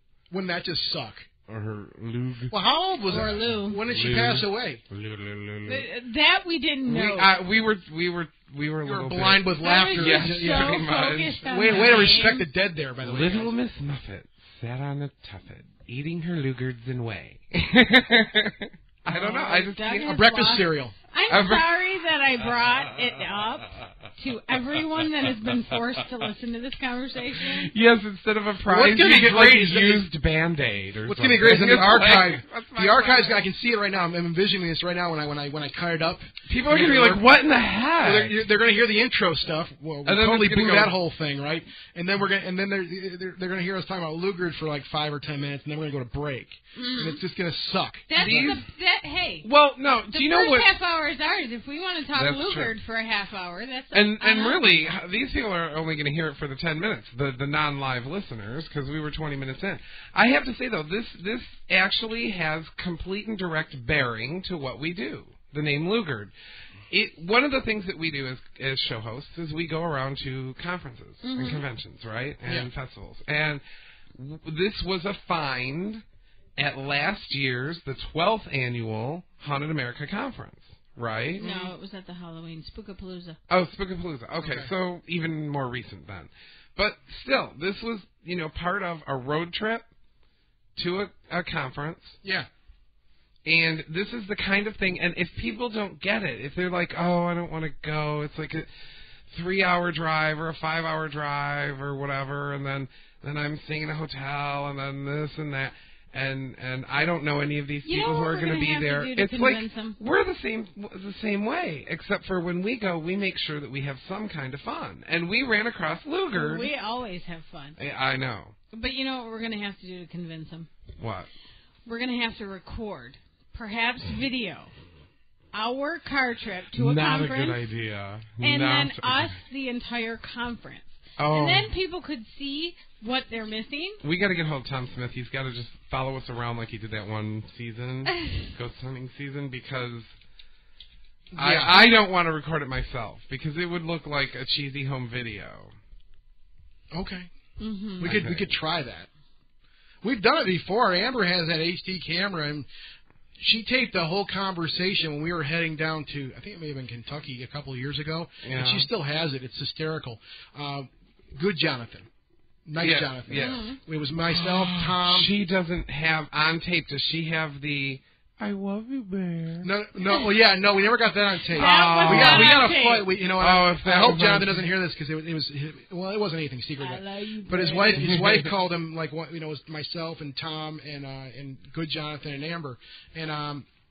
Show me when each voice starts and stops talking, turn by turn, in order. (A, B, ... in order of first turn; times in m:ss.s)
0:00.3-0:01.3 A
0:01.5-0:02.5 B
0:02.5-0:04.8 A
0:03.1-0:03.8 C
0:03.9-0:05.9 B
0:05.6-0:07.4 C
0:06.8-0:12.2 B
0:08.8-0:13.6 A
0:09.6-0:12.4 C
0:13.0-0:20.2 B
0:19.1-0:27.7 C
0:20.0-0:21.0 A
0:21.3-0:21.8 B
0:27.5-0:33.4 B
0:28.6-0:30.1 A
0:31.1-0:37.3 A
0:36.5-0:38.4 B
0:38.0-0:48.6 A
0:40.1-0:41.0 B
0:46.8-0:47.2 C
0:48.1-0:49.5 C
0:48.2-0:48.6 B
0:49.4-0:50.8 B
0:50.1-0:54.6 C
0:52.1-0:52.7 B
0:53.9-1:06.3 B
1:06.9-1:13.6 B
1:11.2-1:11.6 C
1:14.1-1:16.0 B
1:16.6-1:21.5 B
1:21.4-1:23.4 C
1:21.4-1:21.7 A
1:23.5-1:29.8 B
1:24.4-1:24.7 A
1:30.8-1:32.2 B
1:33.4-1:38.7 B
1:39.3-1:56.7 B
1:47.9-1:50.0 C
1:56.3-1:57.8 C
1:57.8-1:58.6 B
1:58.7-2:00.7 C
2:01.0-2:01.3 B
2:01.9-2:04.7 C
2:05.5-2:07.6 C
2:06.8-2:09.4 B
2:08.4-2:14.0 C
2:11.2-2:11.7 B
2:14.0-2:20.1 B
2:21.3-2:21.9 A
2:21.4-2:25.7 B
2:26.9-2:27.3 A
2:27.6-2:28.1 C
2:28.0-2:29.1 A
2:28.0-2:28.5 B
2:30.0-2:32.7 A
2:33.4-2:42.1 A
2:38.4-2:38.9 B
2:42.6-2:45.3 A
2:42.8-2:49.7 B
2:43.4-2:43.8 C
2:49.6-3:03.7 A
2:51.6-2:52.8 B
2:51.6-2:53.1 C
2:53.4-2:54.6 B
2:56.8-2:58.1 C
2:58.0-2:58.5 B